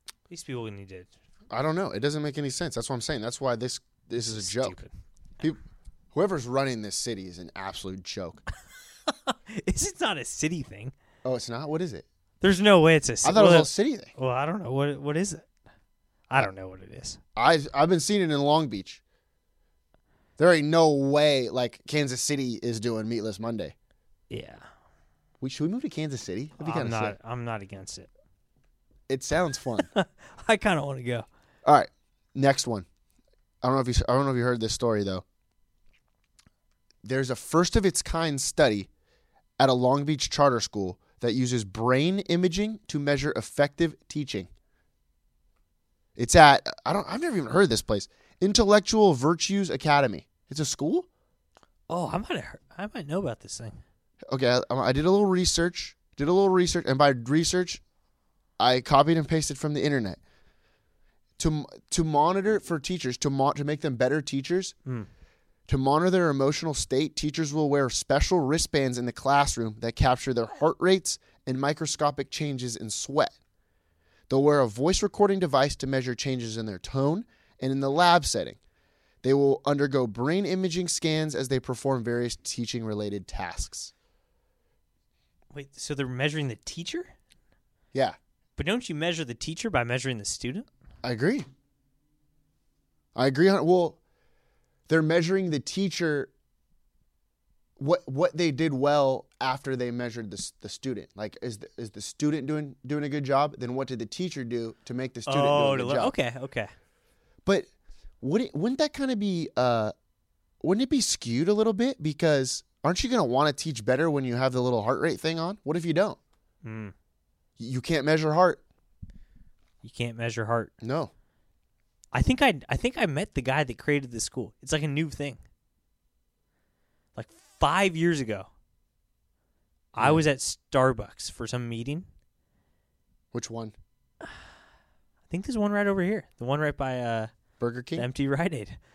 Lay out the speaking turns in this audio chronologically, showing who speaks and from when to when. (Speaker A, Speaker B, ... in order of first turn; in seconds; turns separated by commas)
Speaker A: 0.3-1.1, Speaker B: 1.5-4.8, Speaker A: 4.2-4.9, Speaker B: 6.1-8.4, Speaker A: 9.1-10.9, Speaker B: 11.2-12.1, Speaker A: 12.4-15.4, Speaker B: 13.2-14.1, Speaker A: 16.3-17.2, Speaker B: 17.4-19.0, Speaker B: 20.4-23.7, Speaker A: 24.3-24.6, Speaker B: 25.4-27.1, Speaker A: 26.6-28.1, Speaker B: 29.1-29.9, Speaker A: 29.8-31.2, Speaker B: 31.6-32.9, Speaker B: 33.6-35.2, Speaker B: 37.0-38.9, Speaker B: 39.6-44.5, Speaker B: 46.1-51.1, Speaker A: 51.9-53.8, Speaker B: 54.3-57.8, Speaker B: 58.6-60.2, Speaker B: 61.4-64.7, Speaker B: 65.7-73.3, Speaker B: 74.3-78.6, Speaker B: 79.2-83.9, Speaker A: 85.5-87.1, Speaker A: 88.6-90.7, Speaker B: 91.0-91.5, Speaker B: 93.1-94.0, Speaker B: 94.9-96.3, Speaker B: 97.8-106.1, Speaker A: 105.2-106.7, Speaker B: 108.2-109.9, Speaker B: 110.6-116.2, Speaker A: 116.6-116.9, Speaker B: 117.6-118.6, Speaker A: 119.8-120.7, Speaker B: 120.8-121.1, Speaker A: 122.1-125.4, Speaker A: 127.2-128.5, Speaker A: 129.9-132.1, Speaker B: 130.0-130.2, Speaker B: 133.3-133.7, Speaker A: 135.3-137.3, Speaker B: 137.6-138.1, Speaker A: 137.9-138.8